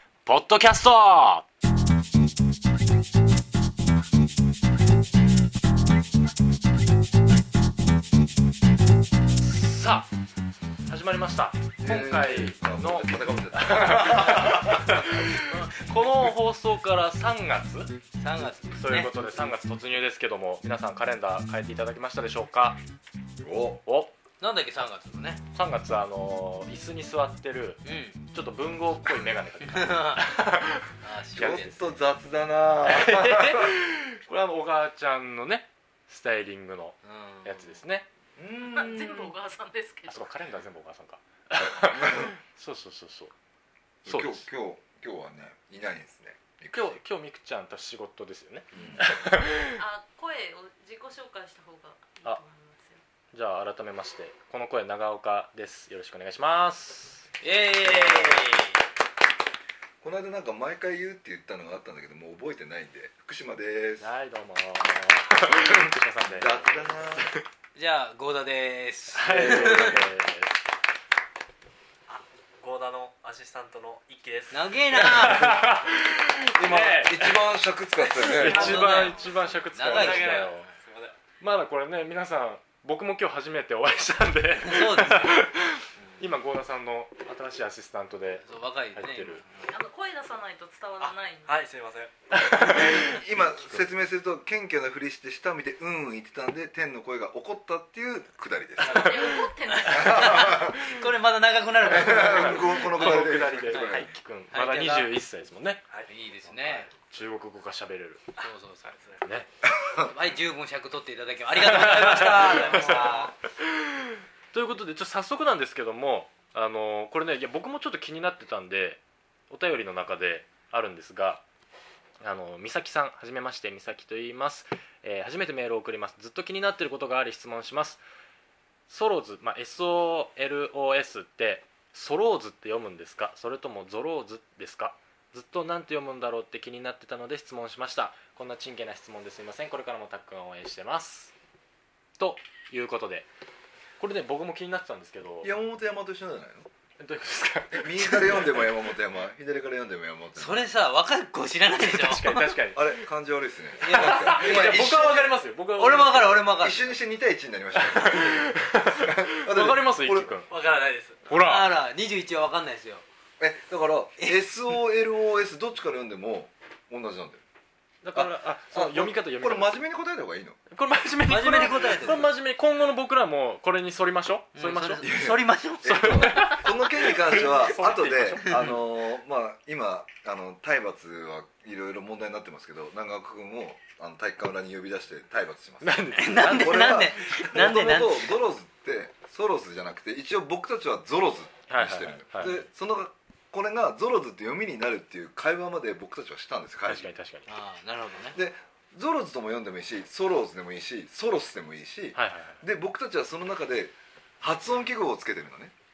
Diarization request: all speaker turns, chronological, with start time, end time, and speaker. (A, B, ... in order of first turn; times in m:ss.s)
0:00.3-0:01.4 A
0:09.4-0:10.1 A
0:10.9-0:18.0 A
0:11.8-0:15.4 B
0:16.0-0:16.3 B
0:18.2-0:19.1 C
0:18.7-0:22.8 A
0:23.4-0:23.8 B
0:23.9-0:24.1 A
0:24.4-0:25.4 C
0:25.5-0:31.7 A
0:27.8-0:28.2 C
0:29.7-0:30.3 C
0:31.0-0:31.8 C
0:31.4-0:33.8 B
0:32.8-0:38.1 A
0:37.0-0:37.8 C
0:38.4-0:39.3 B
0:38.7-0:40.3 D
0:40.1-0:43.3 A
0:41.6-0:42.3 B
0:44.0-0:47.0 B
0:44.0-0:44.4 A
0:46.7-0:49.8 A
0:48.7-0:49.2 B
0:49.8-0:53.0 D
0:53.3-0:57.3 A
0:57.4-0:58.8 C
0:57.8-0:58.5 A
1:00.0-1:04.1 B
1:04.0-1:07.4 A
1:06.3-1:07.3 B
1:07.8-1:10.0 C
1:09.2-1:10.6 A
1:09.3-1:10.0 B
1:12.1-1:14.7 E
1:14.5-1:15.7 C
1:14.9-1:17.4 A
1:16.5-1:19.0 B
1:18.1-1:20.7 A
1:18.2-1:20.7 C
1:18.4-1:19.3 E
1:19.9-1:21.2 E
1:21.4-1:29.4 A
1:24.6-1:25.4 C
1:28.4-1:29.8 C
1:29.7-1:31.6 D
1:31.0-1:32.6 E
1:32.4-1:33.9 A
1:32.6-1:40.9 B
1:38.8-1:40.7 D
1:39.0-1:39.5 A
1:39.7-1:44.0 C
1:40.7-1:41.0 A
1:41.8-1:44.1 B
1:41.8-1:45.8 A
1:44.5-1:45.1 C
1:46.1-1:46.9 C
1:47.0-1:48.3 A
1:48.4-1:48.9 C
1:48.4-1:49.2 E
1:49.2-1:49.5 A
1:49.8-1:50.1 B
1:50.1-1:53.3 C
1:51.6-2:01.4 A
1:52.1-1:53.3 E
2:02.2-2:08.0 A
2:08.9-2:21.3 A
2:22.2-2:23.3 A
2:24.0-2:25.5 A
2:25.4-2:26.7 B
2:27.0-2:28.7 A
2:27.7-2:30.7 B
2:30.4-2:32.6 C
2:31.8-2:33.1 A
2:32.7-2:35.3 B
2:33.8-2:35.2 C
2:33.9-2:36.5 A
2:35.7-2:37.0 C
2:36.5-2:40.3 B
2:37.8-2:40.5 A
2:40.5-2:41.3 E
2:41.3-2:41.7 A
2:41.3-2:43.0 C
2:43.4-2:47.4 B
2:44.2-2:44.5 C
2:48.0-2:49.8 A
2:48.1-2:50.6 B
2:50.7-2:55.0 A
2:51.3-2:52.3 C
2:54.6-2:56.5 C
2:55.0-3:17.1 B
2:55.9-2:58.6 A
2:58.5-2:58.8 C
3:05.8-3:07.4 A
3:06.2-3:08.4 C
3:11.7-3:12.7 A
3:16.9-3:17.5 A
3:17.5-3:18.4 C
3:18.3-3:25.7 B
3:22.2-3:22.6 A